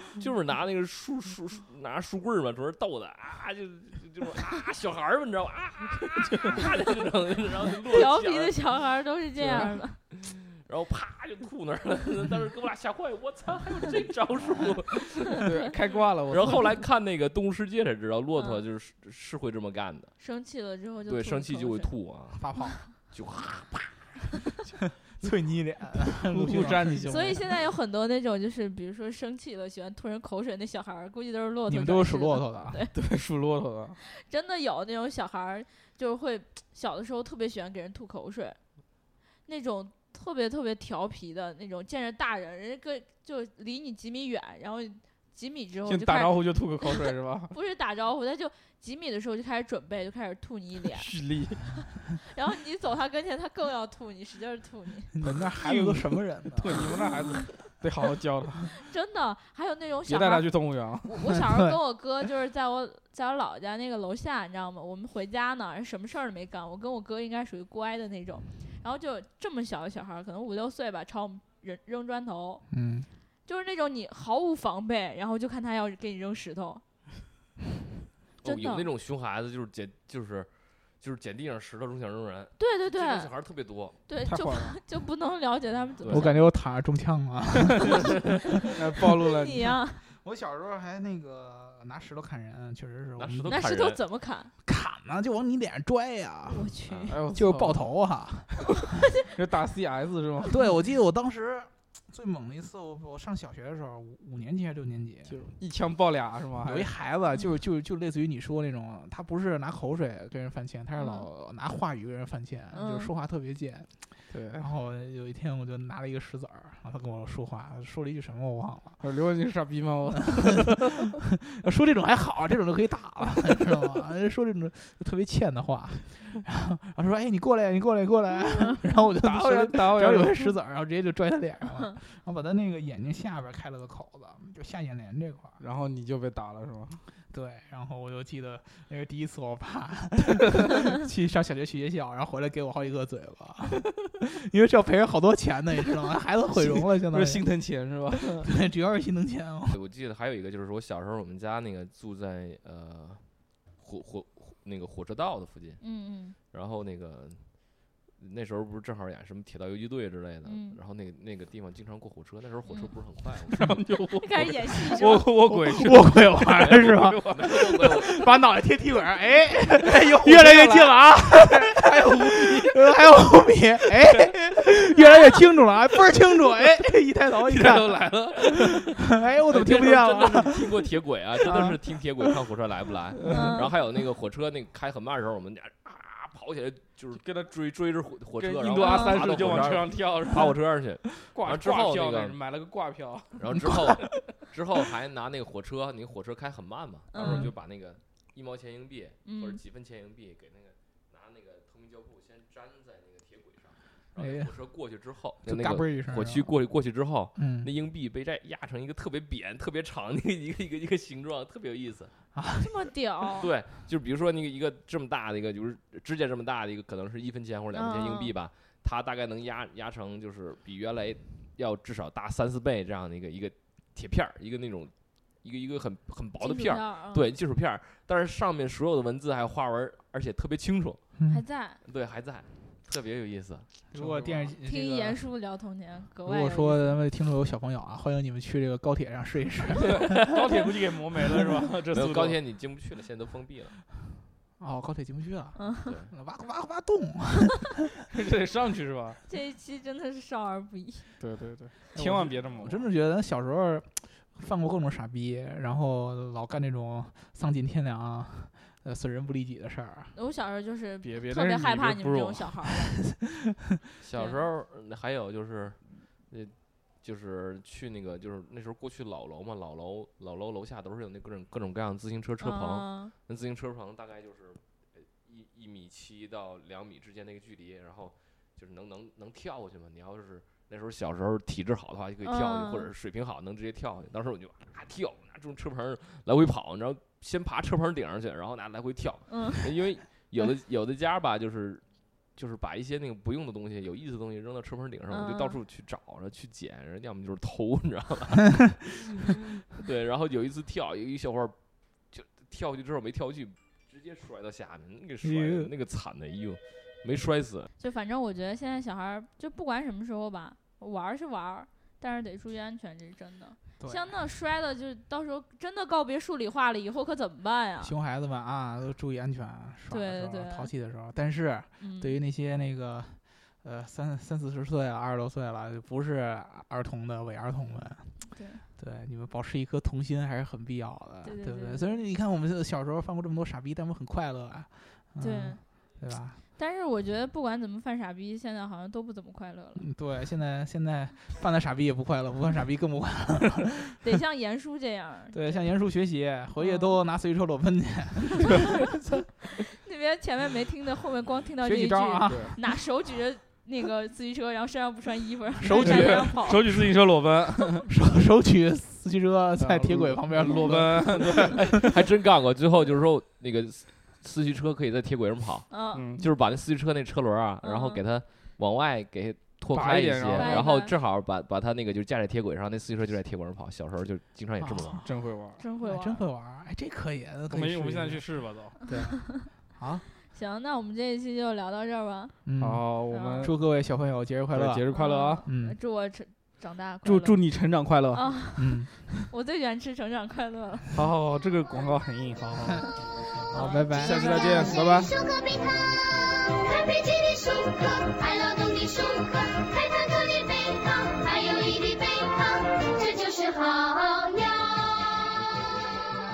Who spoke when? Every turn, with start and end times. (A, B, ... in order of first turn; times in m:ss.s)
0:00.2-0:08.6 A
0:06.3-0:06.6 B
0:07.9-0:10.0 C
0:09.4-0:09.8 B
0:10.1-0:15.4 A
0:15.4-0:16.8 B
0:16.3-0:20.2 A
0:18.4-0:18.6 C
0:20.2-0:22.0 C
0:21.1-0:22.4 A
0:22.4-0:22.8 D
0:23.1-0:24.2 A
0:25.1-0:27.4 D
0:26.2-0:27.4 B
0:27.1-0:33.0 C
0:31.7-0:32.8 D
0:32.9-0:34.0 B
0:34.1-0:38.6 C
0:39.4-0:51.1 C
0:45.8-0:47.5 B
0:50.9-0:51.8 B
0:52.2-0:55.1 C
0:55.1-0:57.0 D
0:55.2-0:58.7 B
0:58.7-1:00.5 C
1:00.1-1:01.3 B
1:01.0-1:12.7 C
1:12.7-1:13.1 D
1:13.5-1:16.8 C
1:18.4-1:24.0 A
1:18.4-1:18.9 C
1:22.6-1:23.3 C
1:24.1-1:26.4 C
1:24.3-1:24.8 B
1:26.0-1:26.3 A
1:26.1-1:28.7 D
1:28.8-1:29.8 B
1:29.3-1:30.0 C
1:30.2-1:33.5 D
1:33.2-1:34.0 A
1:33.5-1:34.5 C
1:34.6-1:36.7 D
1:36.5-1:37.2 C
1:36.9-1:37.2 A
1:37.1-1:37.8 B
1:37.3-1:39.0 D
1:39.3-1:40.6 B
1:40.4-1:45.4 D
1:45.3-1:46.9 B
1:46.6-1:59.0 D
1:51.0-1:51.3 C
1:52.7-1:53.1 C
1:54.3-1:54.6 B
1:59.0-2:01.1 B
2:00.8-2:15.6 D
2:09.2-2:10.6 B
2:15.6-2:17.0 B
2:17.3-2:27.5 D
2:26.7-2:28.5 B
2:28.1-2:29.8 D
2:29.7-2:35.8 A
2:35.8-2:36.4 C
2:36.5-2:43.8 A
2:40.4-2:40.8 C
2:42.7-2:42.9 C
2:43.5-2:47.8 B
2:44.2-2:45.3 C
2:45.5-3:00.8 D
2:46.6-2:48.2 A
2:49.8-2:52.8 B
2:54.9-2:55.4 C
2:57.4-2:58.9 B
2:59.5-3:12.4 A
3:03.2-3:03.7 B
3:03.3-3:03.7 C
3:07.1-3:07.5 B
3:08.4-3:10.6 B
3:08.8-3:09.2 C
3:11.3-3:13.4 B
3:13.4-3:32.1 A
3:17.1-3:17.5 C
3:17.2-3:17.5 D
3:19.2-3:19.6 C
3:24.2-3:24.6 D
3:25.4-3:26.6 D
3:27.4-3:27.7 D
3:32.3-3:32.7 D
3:32.6-3:33.5 C
3:33.4-3:51.1 A
3:37.7-3:38.3 C
3:46.4-3:47.4 C
3:51.2-3:51.4 D
3:51.3-3:51.8 C
3:51.8-3:53.8 A
3:53.9-3:55.2 D
3:53.9-3:54.5 B
3:54.6-3:57.0 C
3:56.2-4:00.3 D
3:59.8-4:02.4 B
4:01.9-4:03.8 A
4:04.6-4:07.9 D
4:05.6-4:05.9 C
4:05.9-4:06.1 A
4:08.1-4:09.2 B
4:09.3-4:11.1 C
4:11.2-4:12.9 B
4:12.0-4:20.2 D
4:20.1-4:23.0 C
4:21.0-4:22.3 B
4:24.0-4:59.2 A
4:24.1-4:24.5 C
4:32.4-4:33.1 C
4:42.2-4:42.9 C
4:49.3-4:49.7 C
4:55.1-4:55.6 C
4:59.7-5:01.6 A
5:02.1-5:07.7 A
5:05.2-5:05.7 D
5:07.8-5:18.0 C
5:13.8-5:14.2 D
5:17.8-5:36.4 D
5:19.9-5:20.7 C
5:21.8-5:22.2 C
5:28.3-5:28.6 C
5:31.2-5:32.0 C
5:35.2-5:35.6 C
5:36.6-5:39.9 C
5:39.8-5:44.0 D
5:44.0-5:45.7 C
5:45.3-5:49.1 D
5:46.6-5:47.0 C
5:49.8-5:56.7 C
5:51.6-5:52.6 D
5:52.3-5:52.5 B
5:55.6-5:56.6 D
5:55.8-5:57.8 B
5:57.9-6:01.8 D
5:59.6-6:01.6 B
6:01.6-6:15.0 A
6:05.7-6:06.2 C
6:06.0-6:06.3 B
6:07.6-6:08.0 C
6:09.7-6:10.7 B
6:10.3-6:11.0 C
6:14.6-6:15.3 D
6:15.0-6:15.6 B
6:15.6-6:16.3 C
6:15.8-6:20.0 D
6:17.5-6:18.8 B
6:20.3-6:22.4 C
6:22.4-6:24.9 D
6:22.6-6:23.5 B
6:23.1-6:23.5 C
6:24.5-6:25.4 B
6:24.9-6:27.4 C
6:25.4-6:25.8 D
6:27.0-6:28.3 B
6:28.1-6:31.0 C
6:28.6-6:28.9 D
6:30.9-6:33.0 B
6:33.5-6:35.0 D
6:33.5-6:34.9 C
6:33.9-6:35.2 B
6:34.7-6:45.4 E